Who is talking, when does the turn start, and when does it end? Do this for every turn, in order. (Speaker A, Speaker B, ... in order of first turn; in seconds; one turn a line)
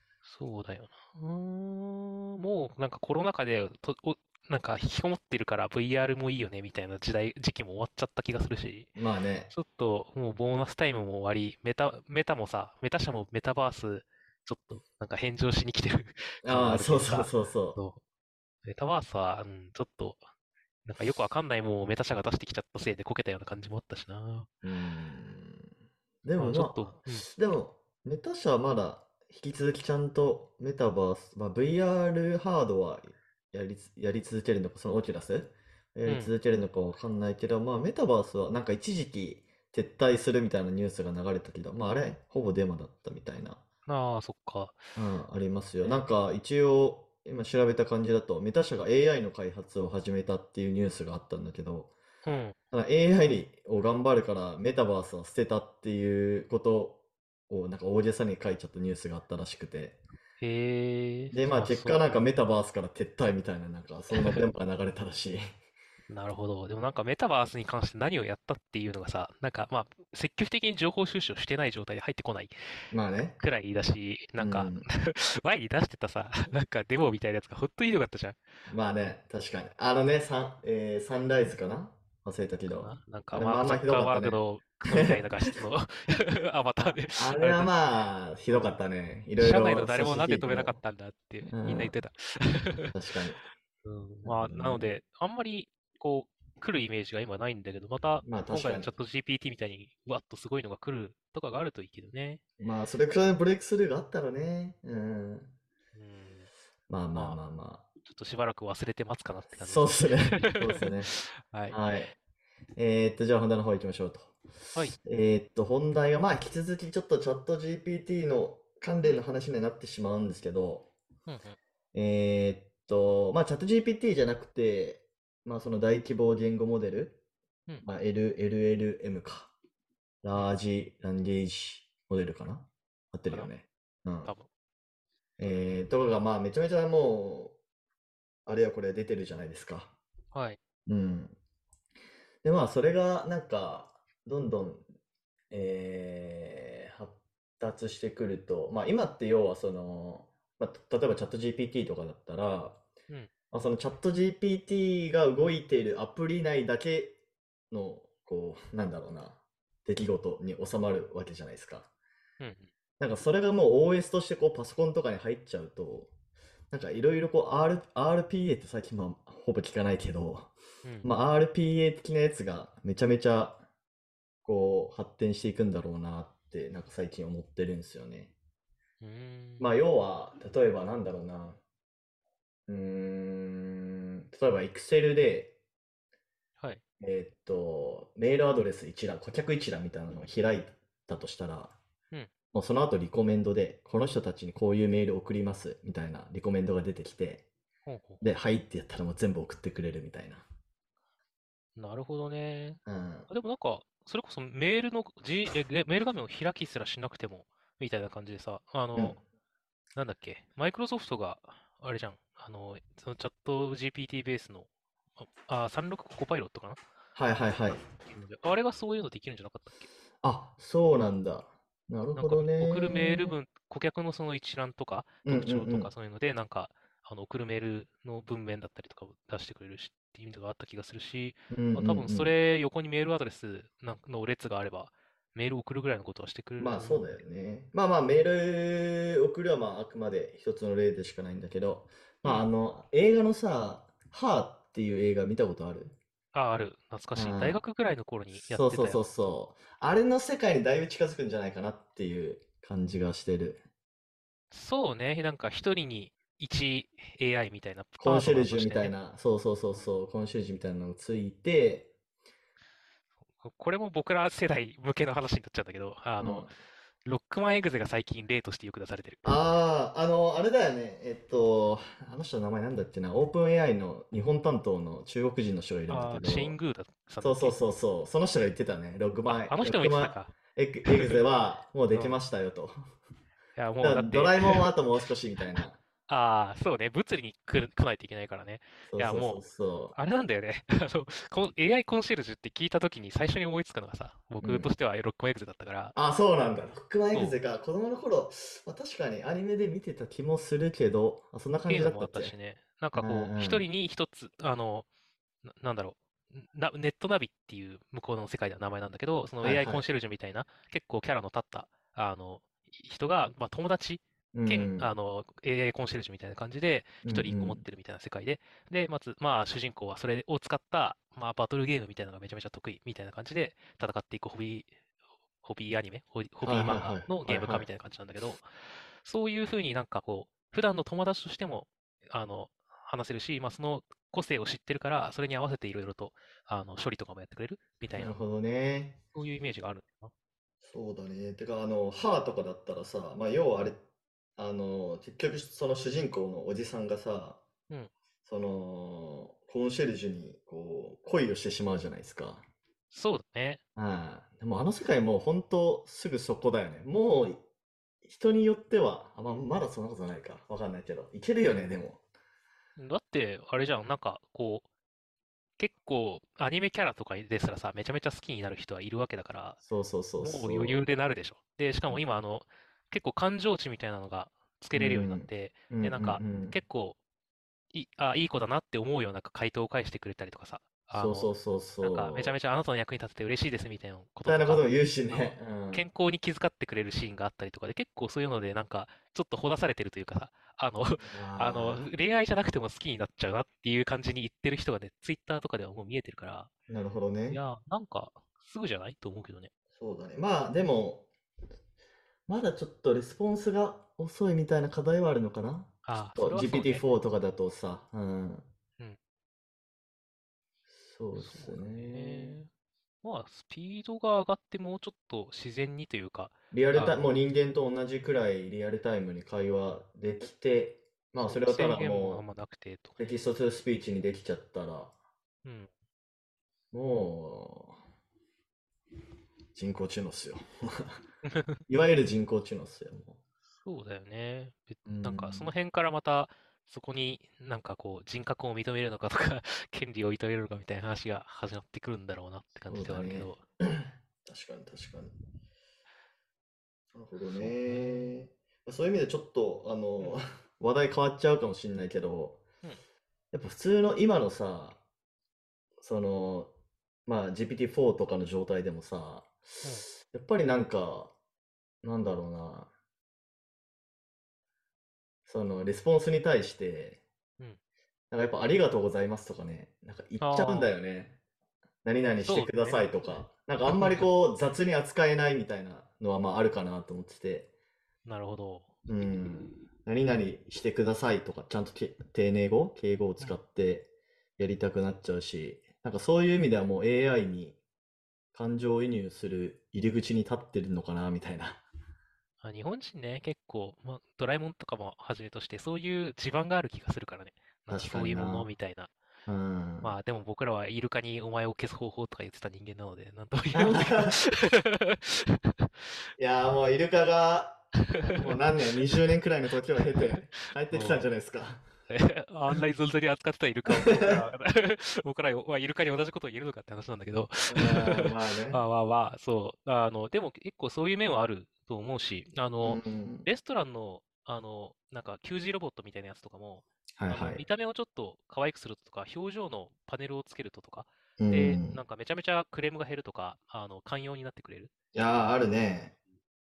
Speaker A: 0.2-8.9
Speaker B: 9.0-9.5
Speaker A: 9.5-18.0
Speaker B: 16.4-17.8
Speaker A: 18.6-20.3
Speaker A: 20.9-24.5
Speaker B: 24.6-25.7
Speaker B: 26.2-43.6
Speaker A: 26.4-27.3
Speaker A: 36.0-36.3
Speaker A: 43.9-44.8
Speaker B: 45.0-51.9
Speaker A: 52.2-52.6
Speaker B: 52.7-60.0
Speaker A: 60.4-62.1
Speaker B: 61.3-65.4
Speaker A: 64.1-64.5
Speaker A: 66.1-72.6
Speaker B: 72.9-73.4
Speaker A: 73.4-78.4
Speaker B: 74.4-74.9
Speaker B: 78.7-84.4
Speaker A: 82.7-87.8
Speaker B: 84.9-85.2
Speaker B: 87.1-90.8
Speaker A: 89.4-92.9
Speaker B: 91.4-92.0
Speaker B: 92.9-93.4
Speaker A: 93.8-102.4
Speaker B: 94.2-94.9
Speaker B: 98.2-98.9
Speaker B: 102.6-105.5
Speaker A: 106.0-106.5
Speaker B: 106.9-107.8
Speaker A: 107.2-107.4
Speaker A: 108.0-111.8
Speaker B: 109.6-111.1
Speaker B: 111.7-112.1
Speaker B: 112.8-114.4
Speaker B: 115.0-120.9
Speaker A: 121.3-121.6
Speaker B: 121.9-127.2
Speaker B: 127.8-129.5
Speaker B: 130.2-134.3
Speaker B: 135.4-137.6
Speaker B: 138.5-139.9
Speaker A: 140.3-140.6
Speaker B: 140.9-141.4
Speaker B: 142.4-144.8
Speaker B: 145.5-152.8
Speaker B: 153.5-157.2
Speaker B: 157.7-161.9
Speaker A: 162.4-162.7
Speaker B: 163.0-166.1
Speaker B: 166.7-170.5
Speaker A: 170.8-171.1
Speaker B: 171.0-173.6
Speaker B: 174.4-178.3
Speaker A: 179.0-179.8
Speaker B: 179.6-181.6
Speaker B: 182.7-185.6
Speaker B: 187.0-191.8
Speaker B: 192.5-197.4
Speaker A: 197.9-198.2
Speaker B: 198.2-200.5
Speaker A: 201.8-209.2
Speaker B: 202.9-203.3
Speaker A: 210.0-216.8
Speaker B: 217.2-217.8
Speaker A: 218.0-219.9
Speaker B: 220.2-223.3
Speaker A: 222.2-237.2
Speaker B: 225.2-225.9
Speaker B: 231.5-232.3
Speaker B: 236.6-245.9
Speaker A: 246.3-249.0
Speaker B: 247.2-247.6
Speaker B: 248.3-253.6
Speaker A: 254.5-258.9
Speaker B: 258.0-261.9
Speaker A: 263.3-266.6
Speaker B: 266.2-266.5
Speaker A: 267.1-269.4
Speaker B: 269.2-276.6
Speaker A: 275.9-277.6
Speaker B: 277.2-282.8
Speaker A: 279.3-280.3
Speaker A: 280.9-281.2
Speaker A: 281.9-282.2
Speaker A: 283.6-284.7
Speaker B: 283.8-285.8
Speaker A: 285.6-289.4
Speaker B: 288.9-289.9
Speaker A: 289.9-295.9
Speaker B: 294.4-294.7
Speaker B: 295.9-302.4
Speaker A: 297.1-297.4
Speaker A: 301.7-304.9
Speaker B: 303.0-303.7
Speaker A: 305.4-324.7
Speaker B: 309.4-309.8
Speaker B: 314.3-314.9
Speaker B: 317.0-317.6
Speaker A: 325.4-328.5
Speaker B: 326.4-327.7
Speaker A: 329.0-338.2
Speaker B: 337.9-339.0
Speaker A: 339.1-340.1
Speaker B: 340.6-343.8
Speaker B: 344.4-347.4
Speaker B: 348.2-352.5
Speaker A: 352.9-353.6
Speaker B: 353.8-357.4
Speaker B: 358.0-362.0
Speaker A: 362.8-364.7
Speaker A: 365.6-369.6
Speaker B: 369.6-370.8
Speaker A: 370.2-377.0
Speaker B: 374.8-376.6
Speaker A: 377.7-396.5
Speaker B: 380.9-382.4
Speaker B: 384.3-385.9
Speaker B: 391.0-391.9
Speaker B: 396.7-397.4
Speaker A: 397.3-399.5
Speaker B: 399.8-401.1
Speaker B: 402.3-408.5
Speaker A: 405.9-406.9
Speaker B: 410.8-412.4
Speaker A: 411.2-412.5
Speaker A: 413.0-417.0
Speaker B: 416.5-422.2
Speaker A: 421.2-423.1
Speaker B: 423.0-424.9
Speaker A: 425.4-425.7
Speaker B: 426.7-427.8
Speaker B: 429.6-431.0
Speaker A: 431.3-431.6
Speaker B: 431.7-433.2
Speaker A: 433.6-443.4
Speaker B: 434.9-435.5
Speaker B: 442.7-445.1
Speaker B: 446.9-452.4
Speaker A: 447.3-448.1
Speaker B: 453.3-454.8
Speaker B: 455.8-456.5
Speaker B: 457.1-461.1
Speaker B: 461.8-462.7
Speaker B: 465.3-467.0
Speaker B: 468.1-471.2
Speaker A: 470.2-470.7
Speaker B: 471.8-477.5
Speaker A: 472.2-474.1
Speaker A: 478.1-478.7
Speaker B: 478.9-487.6
Speaker B: 488.3-491.6
Speaker A: 492.4-498.9
Speaker B: 497.7-498.5
Speaker B: 499.3-499.9
Speaker A: 499.8-505.7
Speaker B: 503.5-504.2
Speaker B: 506.2-511.6
Speaker A: 509.8-511.1
Speaker A: 511.9-535.4
Speaker B: 513.7-514.2
Speaker B: 517.5-518.6
Speaker B: 522.6-523.3
Speaker B: 527.0-527.4
Speaker B: 531.2-531.8
Speaker B: 534.9-535.9